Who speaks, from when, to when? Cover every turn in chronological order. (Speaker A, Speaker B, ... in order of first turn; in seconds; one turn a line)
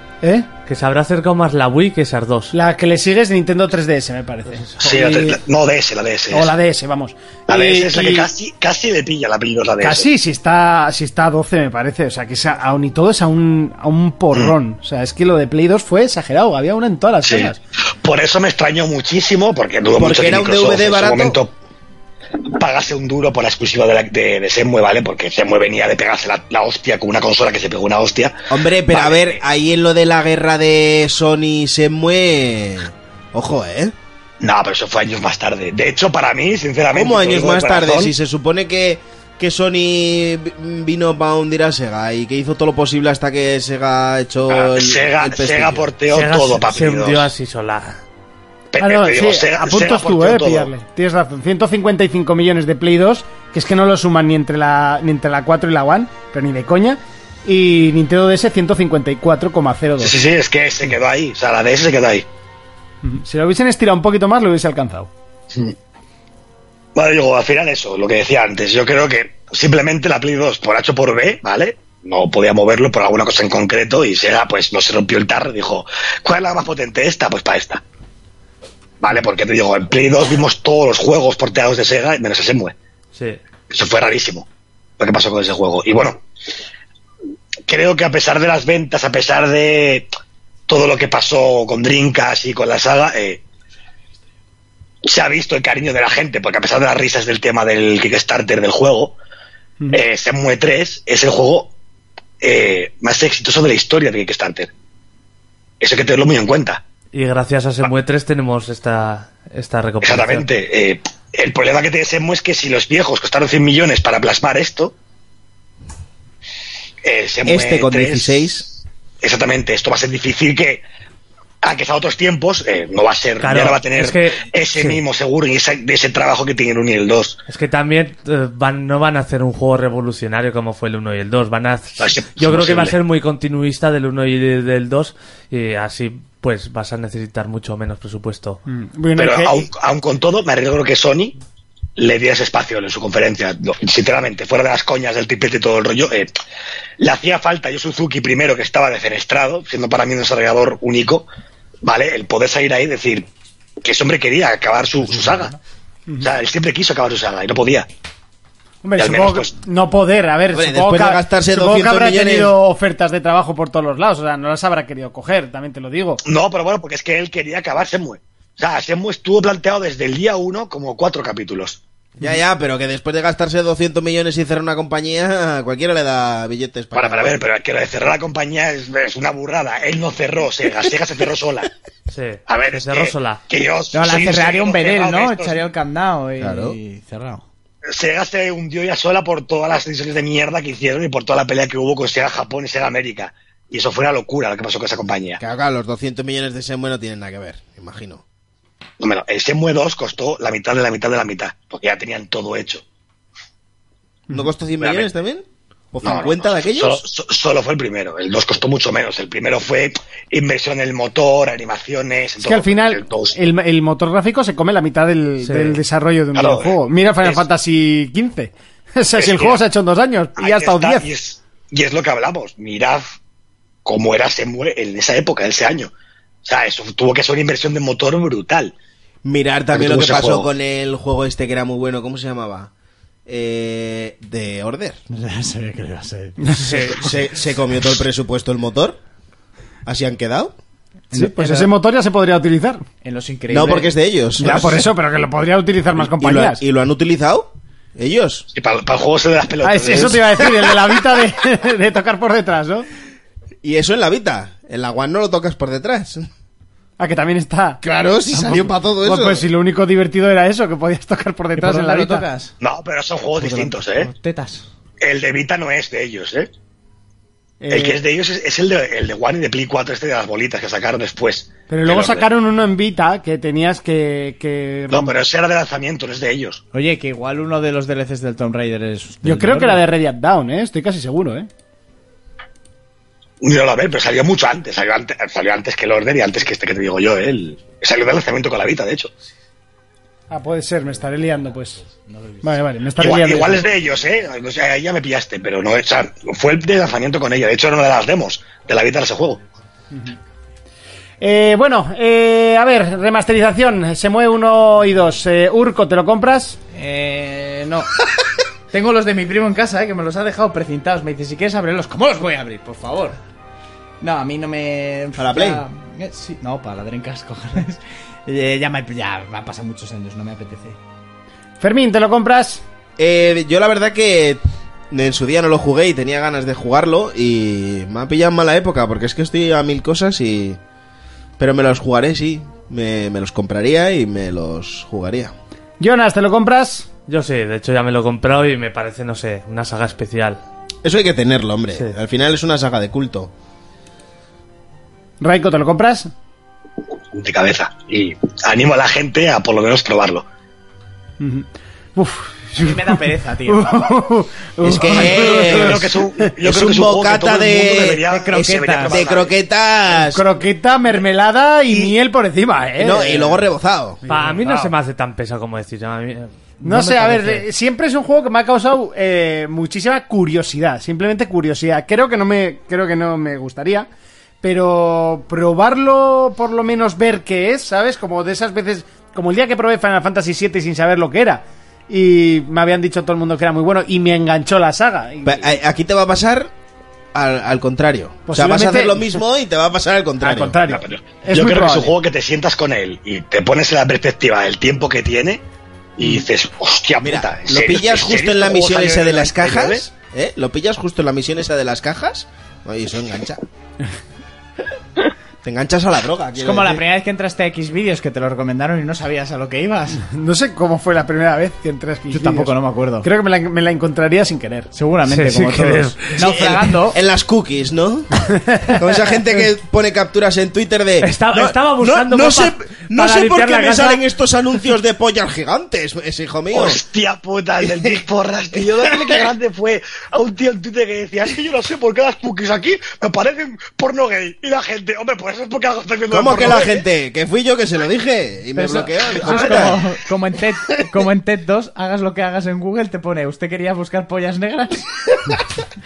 Speaker A: 0.2-0.5
Speaker B: 0.7-2.5
Speaker A: 2.5-5.4
Speaker C: 4.8-6.5
Speaker A: 6.3-8.3
Speaker C: 7.5-10.1
Speaker A: 9.8-17.6
Speaker C: 17.2-21.5
Speaker D: 20.0-21.4
Speaker C: 22.6-28.4
Speaker D: 28.5-33.9
Speaker C: 28.9-29.4
Speaker C: 34.4-38.1
Speaker D: 36.9-45.9
Speaker C: 44.5-47.3
Speaker B: 46.1-48.0
Speaker C: 48.7-50.7
Speaker A: 48.8-60.2
Speaker C: 60.0-62.3
Speaker A: 63.0-65.1
Speaker C: 66.9-77.8
Speaker C: 79.0-82.7
Speaker B: 83.2-83.4
Speaker C: 83.7-84.5
Speaker C: 85.0-86.2
Speaker C: 87.7-90.1
Speaker C: 90.7-93.4
Speaker C: 95.1-99.2
Speaker C: 99.9-101.7
Speaker C: 102.4-104.7
Speaker C: 105.8-106.8
Speaker B: 107.1-110.5
Speaker C: 110.0-114.9
Speaker C: 117.0-118.6
Speaker D: 117.5-118.7
Speaker C: 119.2-120.8
Speaker C: 121.6-127.4
Speaker B: 123.4-125.0
Speaker B: 127.5-138.6
Speaker C: 132.0-133.0
Speaker A: 138.7-139.7
Speaker C: 139.2-141.3
Speaker C: 142.0-146.3
Speaker C: 147.0-151.3
Speaker C: 151.8-153.3
Speaker C: 153.8-155.6
Speaker E: 155.1-155.5
Speaker C: 156.2-157.9
Speaker A: 158.8-166.2
Speaker C: 159.0-159.5
Speaker D: 160.5-162.6
Speaker C: 166.2-171.8
Speaker D: 172.2-177.4
Speaker C: 176.9-181.7
Speaker B: 182.1-183.4
Speaker C: 182.5-185.6
Speaker E: 183.9-187.4
Speaker D: 186.4-186.8
Speaker C: 187.9-195.4
Speaker D: 195.4-198.2
Speaker C: 199.0-202.8
Speaker D: 204.3-207.0
Speaker C: 204.8-205.1
Speaker C: 206.0-213.4
Speaker A: 212.4-221.1
Speaker B: 215.4-215.8
Speaker C: 216.3-217.4
Speaker C: 219.2-219.6
Speaker C: 220.4-223.1
Speaker C: 223.8-225.9
Speaker C: 226.4-228.7
Speaker D: 229.2-232.7
Speaker C: 229.7-230.5
Speaker D: 233.3-235.0
Speaker E: 235.1-237.2
Speaker B: 236.6-237.0
Speaker D: 236.9-239.0
Speaker D: 239.8-240.6
Speaker E: 241.1-241.7
Speaker A: 241.1-242.8
Speaker E: 243.0-244.8
Speaker D: 243.5-244.9
Speaker A: 244.4-246.6
Speaker D: 245.9-248.4
Speaker C: 248.5-250.6
Speaker A: 249.6-252.9
Speaker D: 253.6-256.3
Speaker A: 257.0-257.8
Speaker D: 257.8-259.4
Speaker E: 258.3-258.7
Speaker A: 259.0-262.3
Speaker E: 261.6-262.5
Speaker C: 262.6-264.1
Speaker E: 263.4-264.7
Speaker C: 265.0-266.5
Speaker A: 267.6-268.0
Speaker C: 267.7-272.3
Speaker A: 271.7-275.1
Speaker C: 274.9-276.6
Speaker E: 276.7-279.9
Speaker A: 279.2-281.5
Speaker C: 283.4-289.1
Speaker A: 290.3-291.8
Speaker E: 292.0-292.6
Speaker A: 292.4-293.7
Speaker C: 293.0-299.4
Speaker A: 299.9-300.2
Speaker A: 301.2-306.6
Speaker E: 306.7-308.0
Speaker E: 308.7-313.2
Speaker E: 314.0-320.8
Speaker D: 315.2-315.6
Speaker A: 321.6-322.6
Speaker D: 323.0-330.6
Speaker D: 331.4-335.4
Speaker A: 335.8-336.9
Speaker B: 337.1-340.4
Speaker D: 340.8-343.3
Speaker A: 345.2-346.1
Speaker C: 347.1-350.2
Speaker A: 351.2-356.3
Speaker E: 352.6-353.9
Speaker D: 354.6-355.9
Speaker C: 355.1-359.4
Speaker D: 356.4-360.2
Speaker E: 358.1-359.1
Speaker A: 360.0-363.4
Speaker D: 361.7-361.9
Speaker D: 362.8-364.0
Speaker A: 364.0-364.7
Speaker B: 364.1-367.4
Speaker A: 366.6-373.9
Speaker A: 374.4-385.6
Speaker D: 385.2-386.5
Speaker D: 387.1-390.6
Speaker A: 388.3-389.2
Speaker A: 390.2-391.9
Speaker C: 390.6-395.4
Speaker C: 396.0-399.9
Speaker D: 397.0-403.4
Speaker D: 405.4-406.8
Speaker E: 406.4-410.0
Speaker A: 410.0-414.7
Speaker E: 412.1-413.1
Speaker E: 414.7-417.0
Speaker B: 415.1-416.1
Speaker D: 416.2-426.8
Speaker B: 421.0-424.0
Speaker C: 426.5-436.8
Speaker D: 427.6-427.9
Speaker D: 428.5-429.2
Speaker D: 436.1-439.9
Speaker E: 438.6-445.5